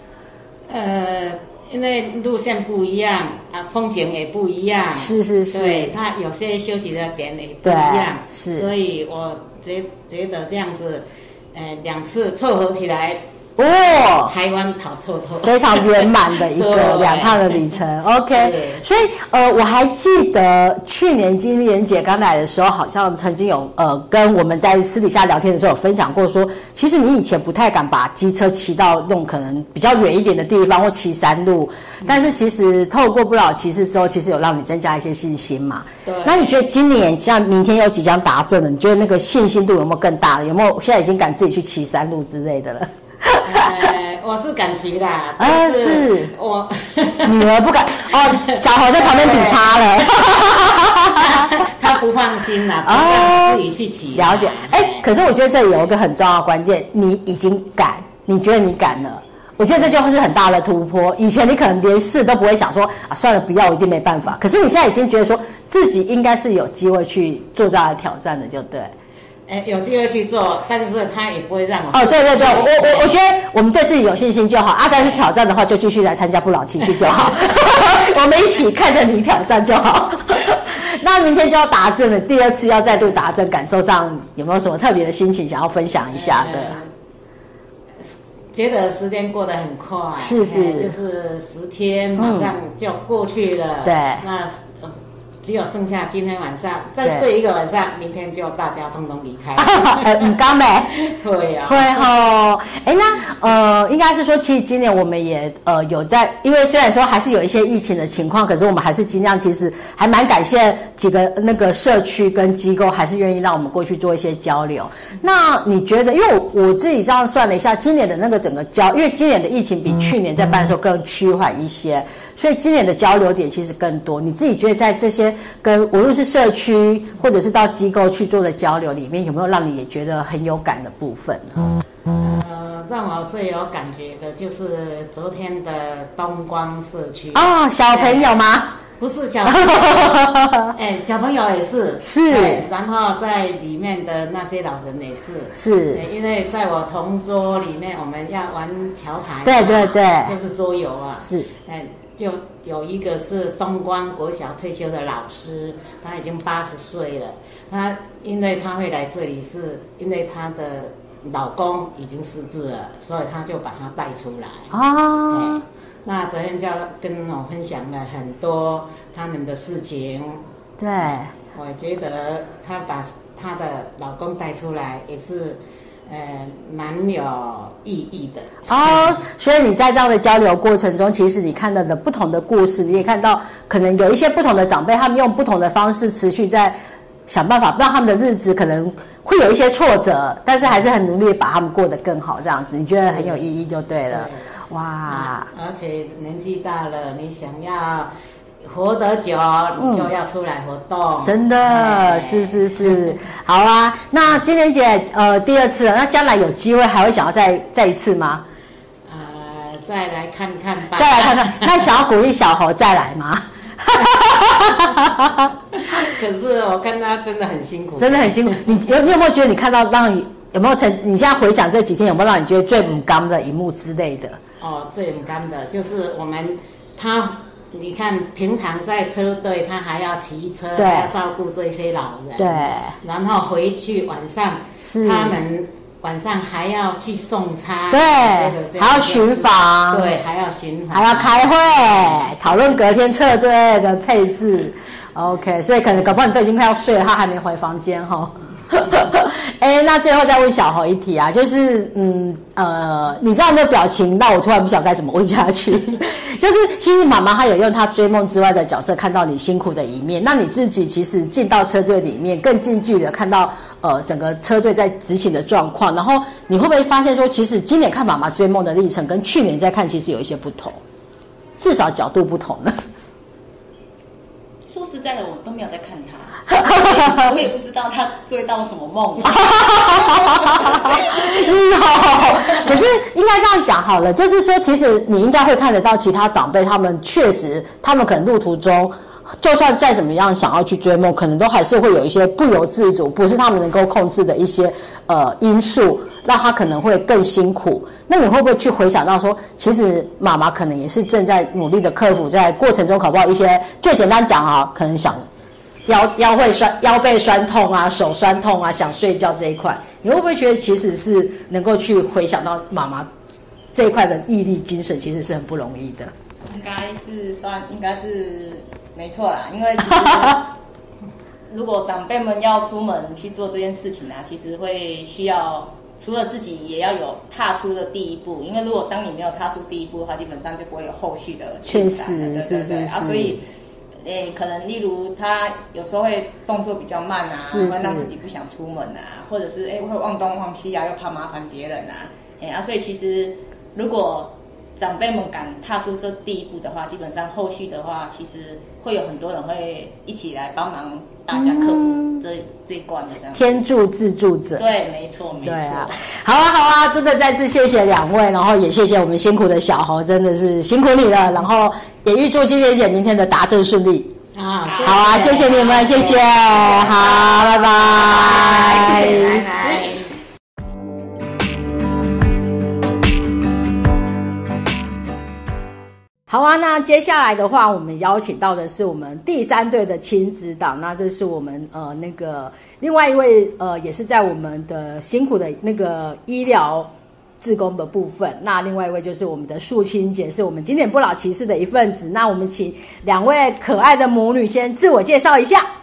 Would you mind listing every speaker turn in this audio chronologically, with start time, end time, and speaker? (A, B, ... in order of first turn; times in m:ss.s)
0:00.7-0:17.8 A
0:04.9-0:06.0 B
0:07.6-0:08.7 B
0:13.6-0:14.3 B
0:15.4-0:43.9 B
0:18.3-0:18.8 A
0:32.0-0:32.3 A
0:36.1-0:36.6 A
0:43.4-0:47.3 A
0:45.4-0:46.3 B
0:47.2-0:51.7 B
0:48.2-0:55.1 A
0:52.8-0:53.6 B
0:54.1-1:08.9 B
1:09.5-1:13.1 A
1:11.9-1:26.8 B
1:14.9-1:15.2 A
1:16.9-1:17.6 A
1:26.1-1:26.9 A
1:28.0-1:40.3 A
1:30.2-1:31.0 B
1:32.2-1:32.5 B
1:33.8-1:34.3 B
1:37.0-1:37.3 B
1:39.6-1:40.9 B
1:41.0-1:42.1 A
1:41.7-2:11.7 B
2:12.2-2:18.4 A
2:17.3-2:18.8 B
2:19.0-2:44.8 A
2:19.4-2:20.7 B
2:22.0-2:22.7 B
2:25.6-2:26.1 B
2:29.4-2:30.4 B
2:31.2-2:31.5 B
2:44.7-2:45.6 B
2:45.3-2:50.4 A
2:50.8-2:51.3 B
2:51.5-2:59.2 A
2:58.7-3:15.5 B
3:12.9-3:13.4 A
3:14.1-3:14.5 A
3:15.1-3:18.1 A
3:18.6-3:23.2 A
3:19.8-3:20.1 B
3:21.2-3:28.4 B
3:29.1-3:31.9 A
3:31.0-3:35.5 B
3:34.6-3:34.8 A
3:35.9-3:38.6 A
3:38.0-3:44.4 B
3:44.6-4:02.8 A
3:50.8-3:51.1 B
3:52.4-3:53.0 B
3:54.8-3:55.4 B
3:57.9-4:00.1 B
4:00.9-4:30.8 B
4:31.6-4:32.8 B
4:34.7-4:41.4 C
4:36.5-4:37.4 B
4:39.2-5:05.2 B
5:05.9-5:13.1 B
5:13.7-5:16.1 B
5:16.5-5:20.5 C
5:19.9-5:20.4 B
5:21.5-5:33.4 C
5:31.7-5:33.4 B
5:34.0-5:53.5 C
5:37.3-5:38.1 B
5:51.3-5:52.2 B
5:53.3-5:54.7 B
5:54.6-5:56.0 C
5:55.4-6:04.1 B
6:04.4-6:10.1 A
6:04.8-6:05.4 C
6:04.8-6:09.9 B
6:16.3-6:35.7 B